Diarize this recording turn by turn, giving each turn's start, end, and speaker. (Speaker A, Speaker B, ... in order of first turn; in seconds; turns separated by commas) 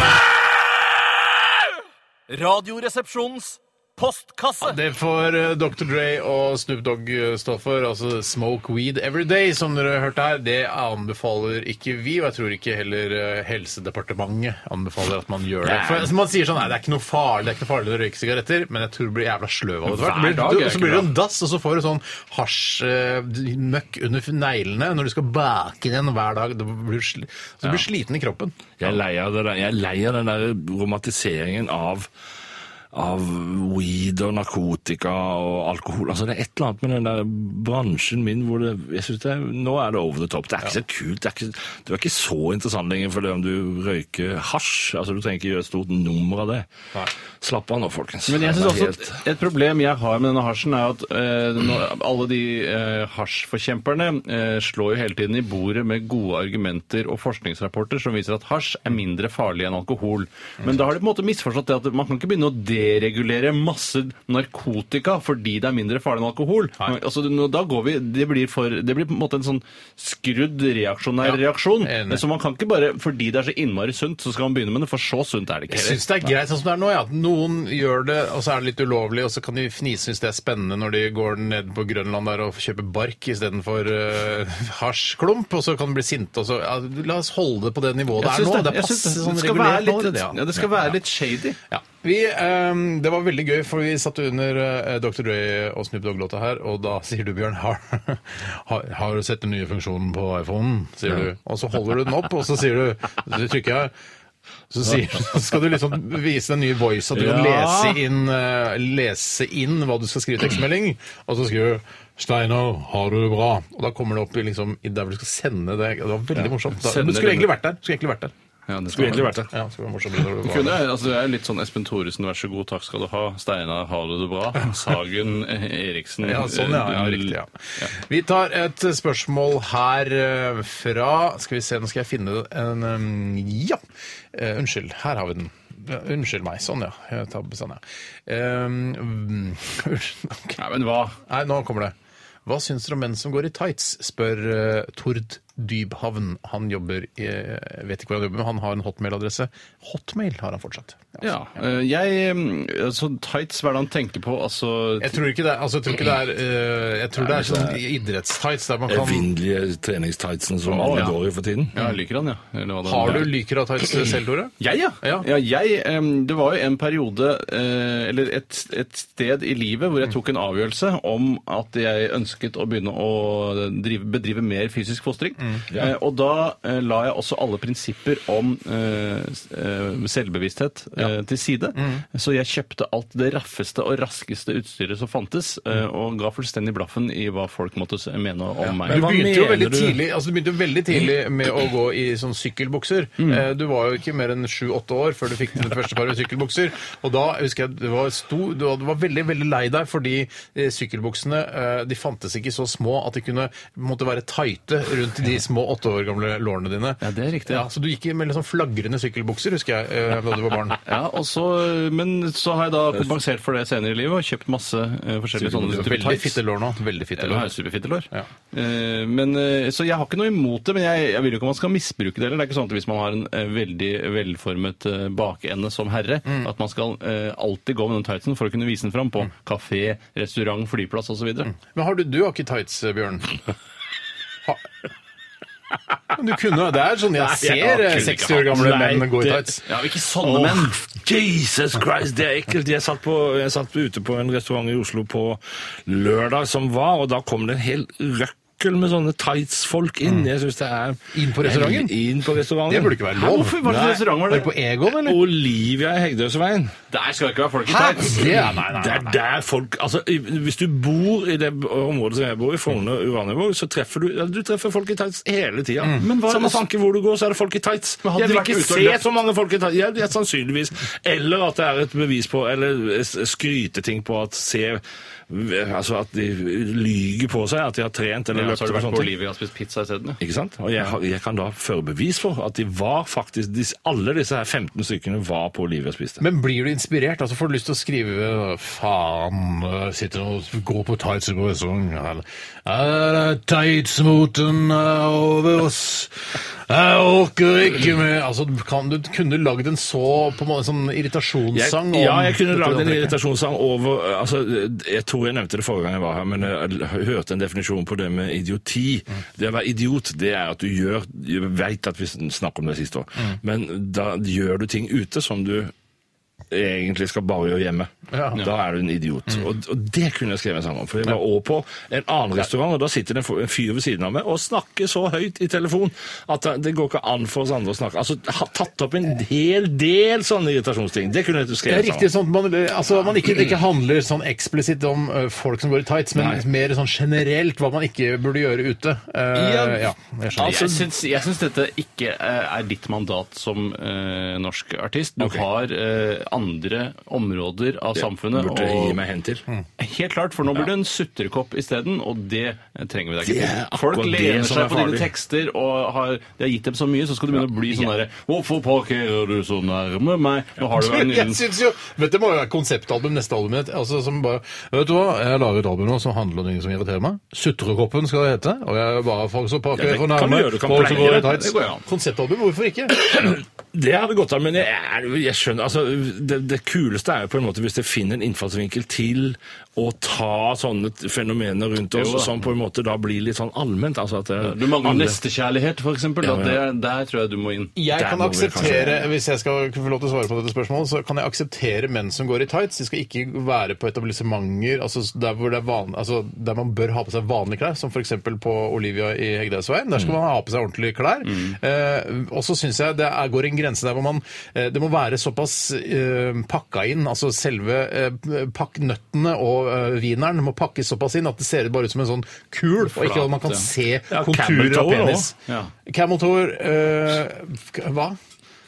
Speaker A: 2.3-4.8, Speaker B: 4.6-28.7, Speaker C: 15.6-16.1, Speaker A: 19.9-21.1, Speaker C: 28.8-32.1, Speaker C: 32.9-46.7, Speaker C: 47.4-49.2, Speaker A: 48.3-76.3, Speaker B: 71.2-72.2, Speaker B: 75.7-90.4, Speaker A: 88.2-91.6, Speaker B: 91.7-103.9, Speaker B: 104.7-118.3, Speaker C: 107.1-108.0, Speaker A: 116.7-117.5, Speaker A: 118.7-119.3, Speaker C: 118.9-119.5, Speaker B: 119.5-120.8, Speaker A: 120.4-127.9, Speaker B: 126.2-133.8, Speaker B: 134.3-140.6, Speaker A: 140.6-141.2, Speaker B: 141.2-141.9, Speaker B: 142.4-151.2, Speaker A: 151.2-155.2, Speaker B: 155.0-159.3, Speaker C: 157.2-157.8, Speaker C: 158.9-161.7, Speaker A: 160.7-161.1, Speaker A: 161.7-163.3, Speaker B: 162.8-165.3, Speaker A: 164.6-189.1, Speaker B: 181.8-182.0, Speaker B: 188.8-210.8, Speaker C: 188.8-190.0, Speaker A: 207.0-207.6, Speaker A: 210.8-216.4, Speaker B: 215.4-217.5, Speaker A: 217.2-231.5, Speaker B: 231.5-233.3, Speaker B: 236.1-239.7, Speaker C: 237.2-239.6, Speaker A: 237.9-238.4, Speaker A: 239.7-240.8, Speaker C: 240.2-252.9, Speaker B: 251.1-251.9, Speaker B: 252.7-255.2, Speaker A: 253.1-254.5, Speaker C: 253.7-254.0, Speaker C: 255.0-256.7, Speaker A: 256.9-258.4, Speaker B: 257.6-259.2, Speaker C: 258.5-279.1, Speaker A: 266.0-266.6, Speaker A: 268.0-269.0, Speaker A: 278.3-280.2, Speaker C: 280.2-286.2, Speaker B: 286.2-303.2, Speaker C: 301.5-315.7, Speaker C: 316.5-332.1, Speaker B: 318.1-318.5, Speaker B: 331.7-340.7, Speaker C: 336.1-336.4, Speaker C: 339.3-340.8, Speaker A: 340.4-349.0, Speaker C: 347.9-349.4, Speaker A: 349.8-361.4, Speaker C: 353.2-355.1, Speaker B: 360.7-373.1, Speaker C: 369.7-371.4, Speaker A: 370.9-371.8, Speaker C: 372.9-385.2, Speaker A: 381.9-382.4, Speaker A: 384.4-387.7, Speaker C: 386.2-386.6, Speaker B: 387.8-418.2, Speaker C: 387.9-389.1, Speaker A: 401.2-401.6, Speaker A: 412.9-413.7, Speaker C: 414.1-415.3, Speaker A: 415.5-415.7